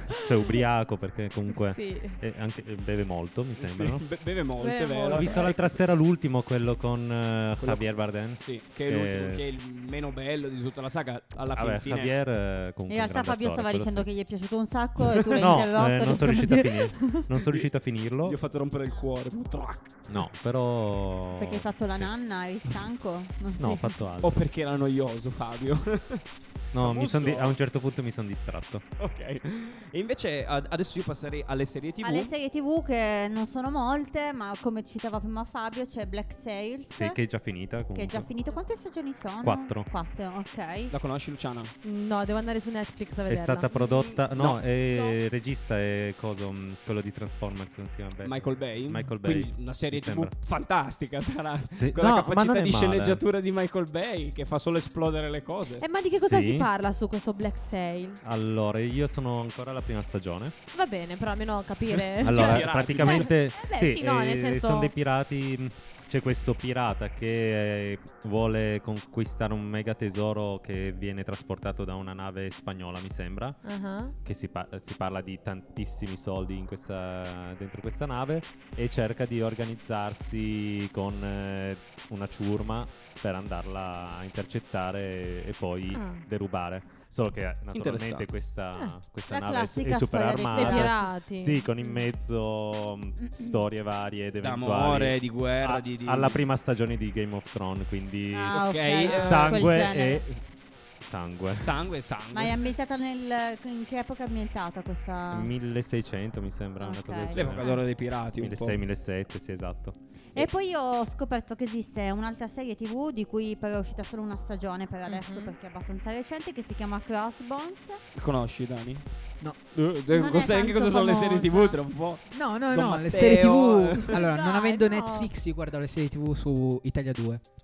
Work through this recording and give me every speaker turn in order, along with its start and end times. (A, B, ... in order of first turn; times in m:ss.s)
0:00.2-0:04.1 A
0:01.6-0:02.2 B
0:03.6-0:05.8 C
0:04.6-0:05.5 B
0:05.1-0:09.4 A
0:07.6-0:12.1 C
0:11.5-0:14.1 A
0:12.9-0:17.3 D
0:15.1-0:18.4 A
0:18.2-0:20.0 C
0:20.1-0:22.1 A
0:21.4-0:23.9 D
0:23.6-0:24.4 A
0:24.2-0:26.2 C
0:26.7-0:28.8 A
0:26.8-0:27.6 C
0:29.0-0:32.3 C
0:32.0-0:37.2 D
0:36.9-0:38.3 A
0:37.9-0:40.9 D
0:39.4-0:39.9 A
0:40.9-0:41.7 C
0:41.8-0:43.7 B
0:43.3-0:50.3 A
0:43.8-0:44.6 C
0:48.2-0:55.8 C
0:51.7-0:53.2 A
0:55.8-0:58.2 B
0:56.1-0:56.7 A
0:58.2-1:00.6 A
1:00.7-1:04.9 B
1:02.2-1:13.6 A
1:02.2-1:03.3 C
1:13.6-1:14.2 B
1:14.2-1:40.4 A
1:25.9-1:26.2 B
1:27.7-1:28.3 C
1:29.3-1:31.0 D
1:30.5-1:32.0 B
1:33.2-1:33.6 D
1:34.4-1:36.4 C
1:38.3-1:40.2 D
1:38.5-1:39.9 C
1:41.0-1:41.8 A
1:41.6-1:42.7 C
1:42.3-1:45.5 D
1:45.3-1:50.4 A
1:46.8-1:47.8 D
1:47.3-1:48.8 C
1:50.4-1:58.0 D
1:55.1-1:55.6 B
1:58.2-1:59.0 C
1:59.7-2:04.3 C
2:00.1-2:01.8 D
2:02.3-2:07.5 E
2:04.2-2:05.1 D
2:04.7-2:05.3 B